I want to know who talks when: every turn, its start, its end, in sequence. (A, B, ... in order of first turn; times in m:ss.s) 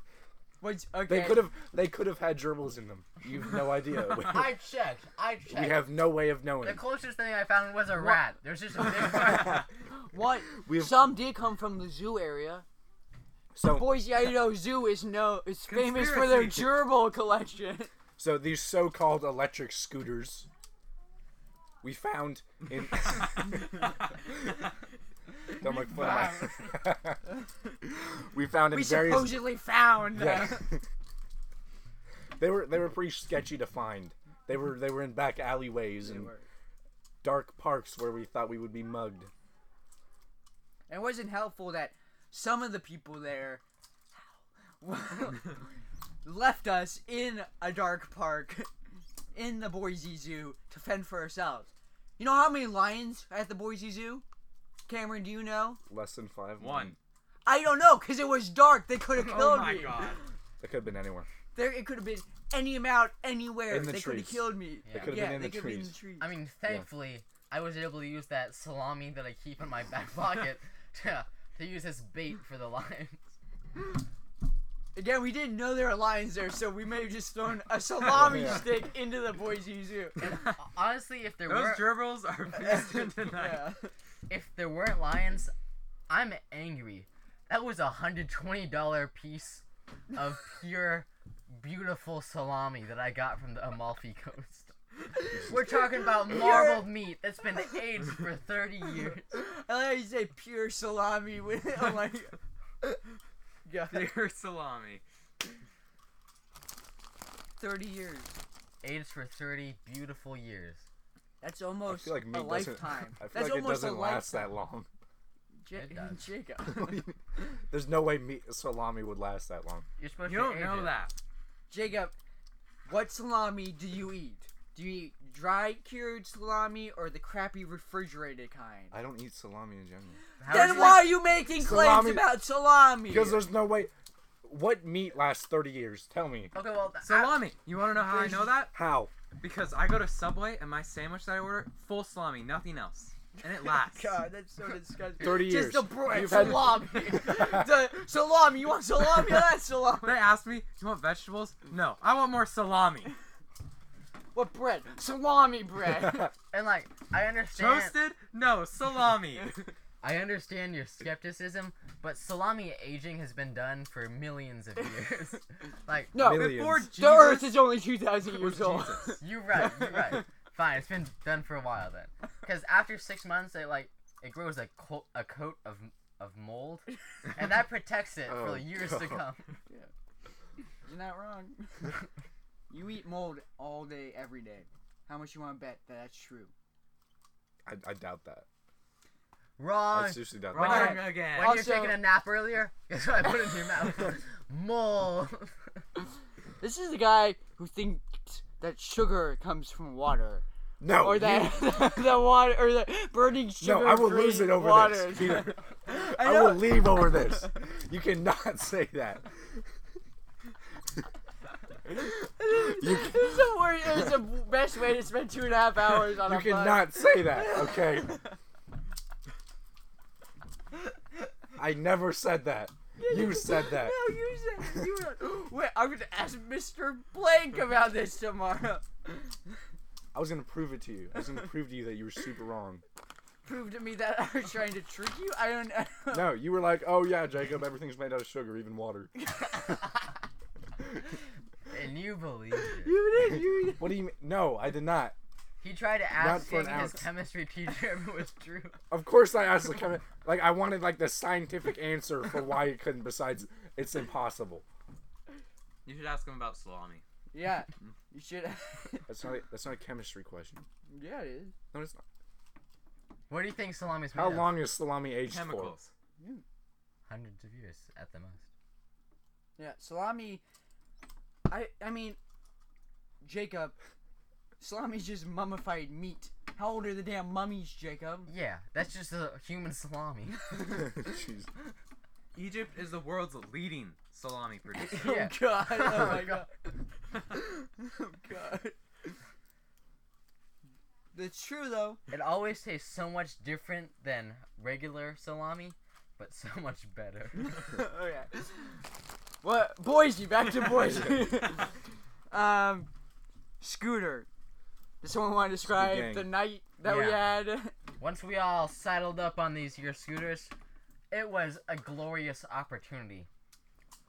0:00.6-0:01.5 A
0:01.1-0:04.5 B
0:04.1-0:06.0 C
0:05.5-0:06.8 B
0:06.6-0:09.7 C
0:08.0-0:08.2 A
0:09.8-0:12.6 A
0:10.5-0:11.1 B
0:13.5-0:13.9 B
0:13.6-0:17.9 A
0:15.7-0:16.7 D
0:18.2-0:20.5 B
0:21.8-0:23.6 B
0:23.3-0:24.7 D
0:25.6-0:27.2 B
0:25.6-0:26.8 C
0:27.8-0:29.4 B
0:28.7-0:30.8 A
0:30.1-0:30.8 B
0:32.4-0:36.3 B
0:36.0-0:36.4 A
0:37.2-0:39.3 B
0:40.9-0:43.6 A
0:44.8-0:45.6 A
0:46.2-0:48.7 A
0:49.3-0:54.2 A
0:54.9-0:55.8 A
0:55.9-0:57.0 B
0:56.6-0:57.0 D
0:57.4-1:00.2 A
0:59.1-1:00.2 D
1:00.6-1:01.3 B
1:01.5-1:06.3 A
1:03.7-1:06.0 B
1:04.8-1:05.2 C
1:06.2-1:13.2 C
1:14.9-1:20.2 A
1:18.2-1:18.6 B
1:20.2-1:22.1 C
1:21.4-1:23.7 D
1:22.6-1:23.9 A
1:24.3-1:25.5 C
1:26.1-1:34.7 C
1:35.3-1:39.3 C
1:35.7-1:36.9 A
1:39.3-1:43.0 A
1:43.6-1:44.2 A
1:43.9-1:45.0 D
1:47.6-1:48.3 A
1:48.8-1:50.8 C
1:51.4-1:54.5 A
1:51.8-1:54.9 B
1:55.6-1:57.2 A
1:55.7-1:56.3 C
1:56.7-1:57.0 B
1:57.7-1:59.8 B
2:00.0-2:01.0 C
2:00.2-2:01.1 D
2:01.7-2:02.2 A
2:02.8-2:08.9 A
2:08.9-2:10.2 B
2:10.4-2:11.2 C
2:10.5-2:13.5 A
2:11.6-2:12.4 B
2:13.1-2:13.9 B
2:14.4-2:16.5 B
2:16.5-2:17.5 C
2:17.0-2:18.7 D
2:18.0-2:18.5 A
2:18.7-2:19.1 B
2:19.4-2:24.2 D
2:23.4-2:30.3 A
2:25.2-2:27.6 B
2:30.0-2:33.1 D
2:34.3-2:36.3 A
2:36.5-2:38.0 C
2:37.5-2:39.7 D
2:40.0-2:46.3 C
2:46.1-2:49.2 A
2:46.1-2:46.9 B
2:46.4-2:47.6 D
2:48.3-2:49.0 D
2:49.2-2:59.6 C
2:49.9-2:50.2 A
2:58.3-2:59.2 B
3:00.8-3:02.0 A
3:02.7-3:06.5 A
3:07.6-3:08.4 B
3:09.6-3:15.5 C
3:09.9-3:11.1 B
3:10.5-3:11.6 D
3:10.6-3:12.1 A
3:16.6-3:20.4 A
3:20.8-3:21.9 B
3:21.0-3:27.5 A
3:23.6-3:29.6 B
3:31.9-3:38.4 A
3:32.5-3:33.3 B
3:36.1-3:38.2 B
3:41.6-3:44.0 B
3:43.0-3:49.3 A
3:50.1-3:52.8 B
3:53.4-3:56.4 A
3:56.1-3:59.1 B
3:59.2-3:59.8 A
4:01.7-4:02.9 C
4:02.6-4:04.0 A
4:03.8-4:05.1 B
4:05.6-4:08.8 C
4:06.2-4:07.1 B
4:08.9-4:14.6 B
4:15.8-4:17.0 D
4:17.3-4:19.1 A
4:19.1-4:20.7 B
4:20.9-4:21.5 A
4:21.7-4:22.0 B
4:23.3-4:24.6 C
4:24.1-4:25.8 B
4:25.2-4:25.9 D
4:27.1-4:28.4 C
4:29.6-4:30.4 A
4:31.5-4:32.2 A
4:33.2-4:33.8 A
4:34.6-4:38.3 A
4:38.3-4:40.8 C
4:40.7-4:41.5 B
4:42.3-4:45.0 D
4:44.8-4:46.5 A
4:44.9-4:46.5 C
4:47.3-4:48.8 A
4:51.1-4:52.0 A
4:52.1-4:57.7 C
4:57.6-4:58.8 A
4:59.4-5:01.8 A
5:02.3-5:02.9 A
5:03.6-5:04.3 A
5:05.0-5:07.7 A
5:05.6-5:06.3 B
5:06.8-5:07.3 C
5:08.0-5:10.5 C
5:11.1-5:13.3 C